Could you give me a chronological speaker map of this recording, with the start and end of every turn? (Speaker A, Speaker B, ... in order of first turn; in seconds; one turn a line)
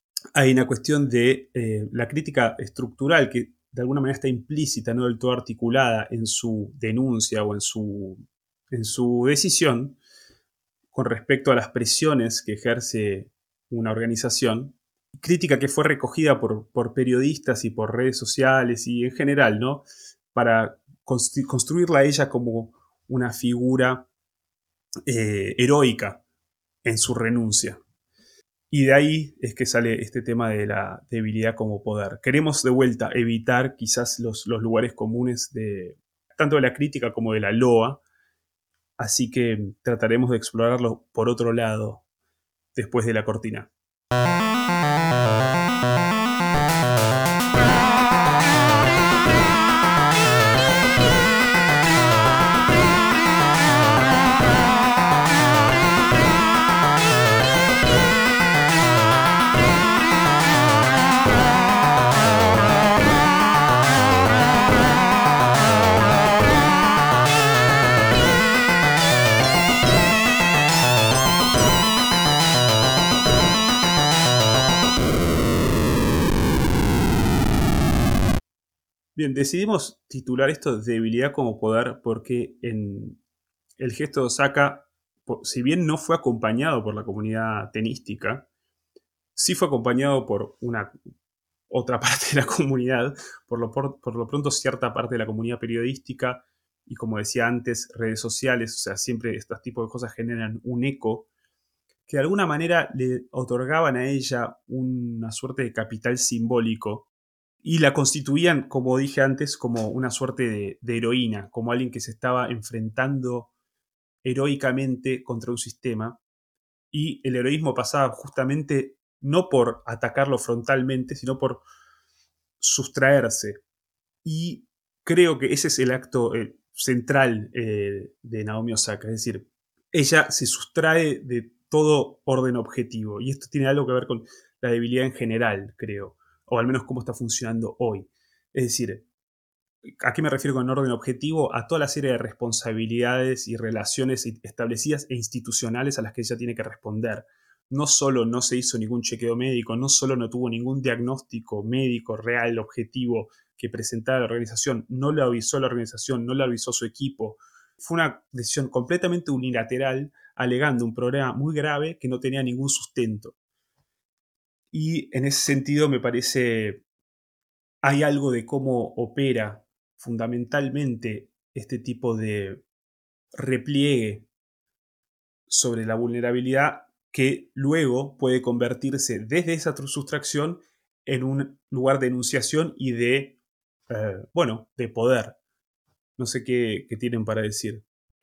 Speaker A: 0.3-10.0
Speaker A: 10.9-24.1
Speaker A: 25.1-26.2
Speaker A: 26.8-27.8
Speaker A: 28.7-38.0
Speaker A: 39.0-42.0
Speaker A: 42.7-43.7
Speaker A: 79.2-83.2
Speaker A: 83.8-88.5
Speaker A: 89.3-90.9
Speaker A: 91.7-101.3
Speaker A: 102.1-107.1
Speaker A: 107.6-113.5
Speaker A: 114.2-116.2
Speaker A: 116.9-121.6
Speaker A: 122.6-123.6
Speaker A: 124.2-139.1
Speaker A: 140.0-163.3
Speaker A: 164.7-166.8
Speaker A: 167.8-172.6
Speaker A: 173.3-174.3
Speaker A: 175.5-183.4
Speaker A: 183.9-185.4
Speaker A: 186.2-187.8